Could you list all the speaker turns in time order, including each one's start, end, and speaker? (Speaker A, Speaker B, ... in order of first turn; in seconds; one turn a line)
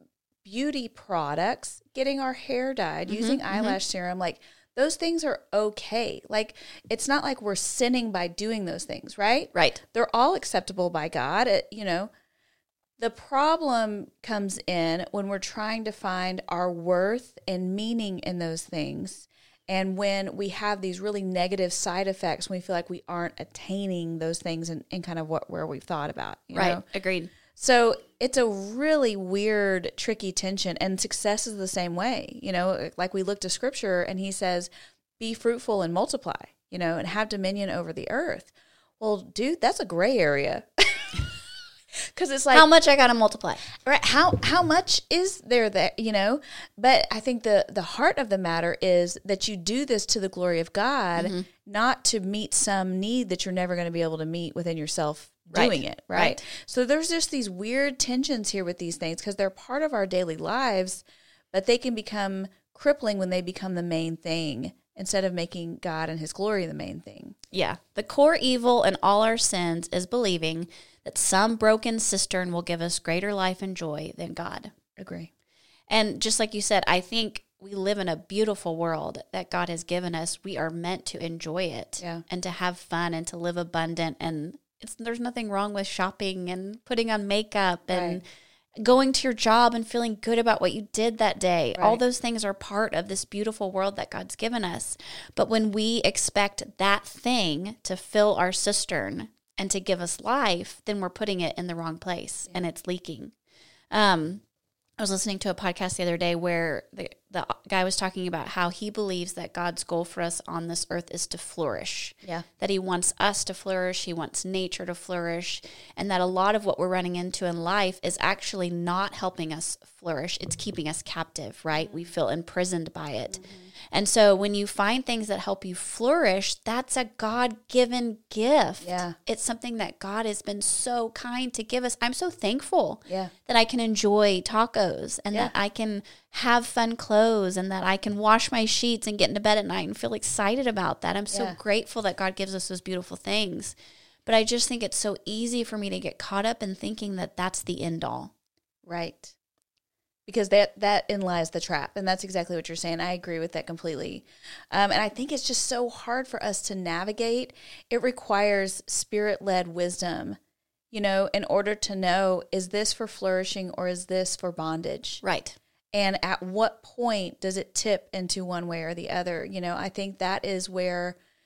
Speaker A: 0.4-12.1
Speaker B: 3.1-3.8
Speaker B: 9.5-9.8
Speaker A: 13.0-26.8
Speaker B: 26.5-27.3
Speaker A: 27.5-41.2
Speaker A: 42.1-42.6
Speaker B: 42.5-43.6
Speaker A: 43.8-67.3
Speaker B: 51.2-51.5
Speaker B: 55.5-56.4
Speaker B: 67.5-74.7
Speaker A: 75.0-75.3
Speaker B: 75.9-88.2
Speaker A: 82.0-82.2
Speaker A: 87.9-88.2
Speaker B: 88.8-103.3
Speaker B: 103.9-104.4
Speaker B: 105.0-123.4
Speaker A: 123.3-123.7
Speaker B: 123.9-143.7
Speaker A: 128.8-129.2
Speaker A: 141.3-141.6
Speaker B: 144.2-148.3
Speaker A: 148.8-149.3
Speaker A: 150.2-160.4
Speaker A: 160.9-165.2
Speaker B: 165.2-165.6
Speaker A: 165.9-171.2